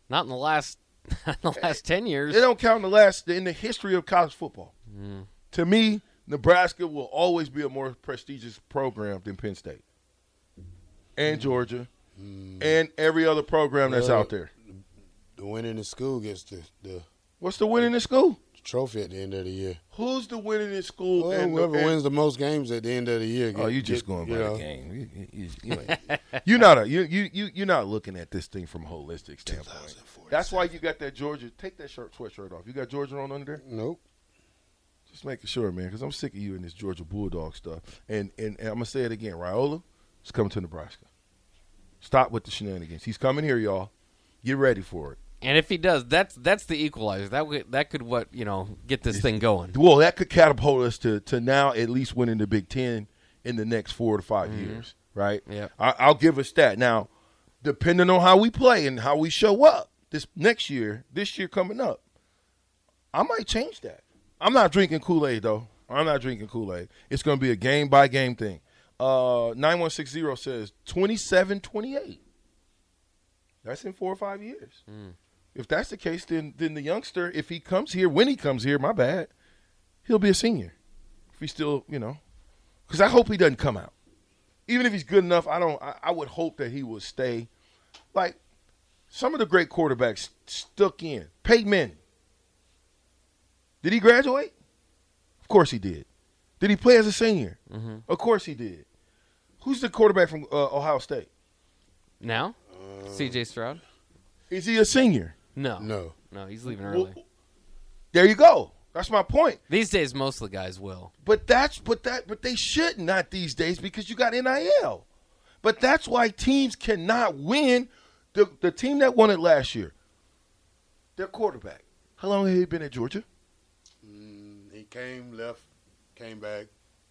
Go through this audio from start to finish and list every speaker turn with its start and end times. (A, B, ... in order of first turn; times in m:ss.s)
0:00.1-0:02.5 A
0:02.3-0:04.7 B
0:04.9-0:05.3 A
0:05.5-0:09.8 B
0:11.2-0:11.9 B
0:12.2-0:12.8 C
0:12.6-0:14.5 B
0:13.8-0:14.8 C
0:15.4-0:17.1 C
0:17.4-0:18.4 B
0:18.5-0:19.8 C
0:19.9-0:22.0 B
0:21.2-0:24.6 C
0:23.6-0:33.6 B
0:25.9-0:26.2 A
0:29.5-0:30.7 C
0:33.6-0:34.0 C
0:35.1-0:41.0 B
0:42.0-0:43.9 B
0:44.4-0:45.2 B
0:45.4-0:49.8 A
0:49.1-0:57.1 B
0:54.4-0:54.8 A
0:57.6-1:02.0 B
1:03.1-1:12.2 B
1:13.6-1:14.8 B
1:14.9-1:15.2 A
1:15.6-1:19.3 B
1:20.1-1:20.8 B
1:21.3-1:22.2 B
1:22.9-1:23.9 B
1:24.7-1:27.5 B
1:29.1-1:32.0 B
1:33.8-1:34.5 B
1:35.4-1:36.1 B
1:36.6-1:38.8 B
1:37.7-1:38.0 A
1:39.6-1:41.3 B
1:42.2-1:42.6 A
1:42.7-1:43.4 C
1:43.1-1:43.8 A
1:44.5-1:45.4 B
1:45.6-1:47.2 A
1:45.8-1:46.2 C
1:46.7-1:47.2 B
1:48.1-1:49.6 B
1:49.7-1:51.1 A
1:51.2-1:55.0 B
1:55.6-1:59.9 B
2:01.2-2:03.2 B
2:04.0-2:06.7 C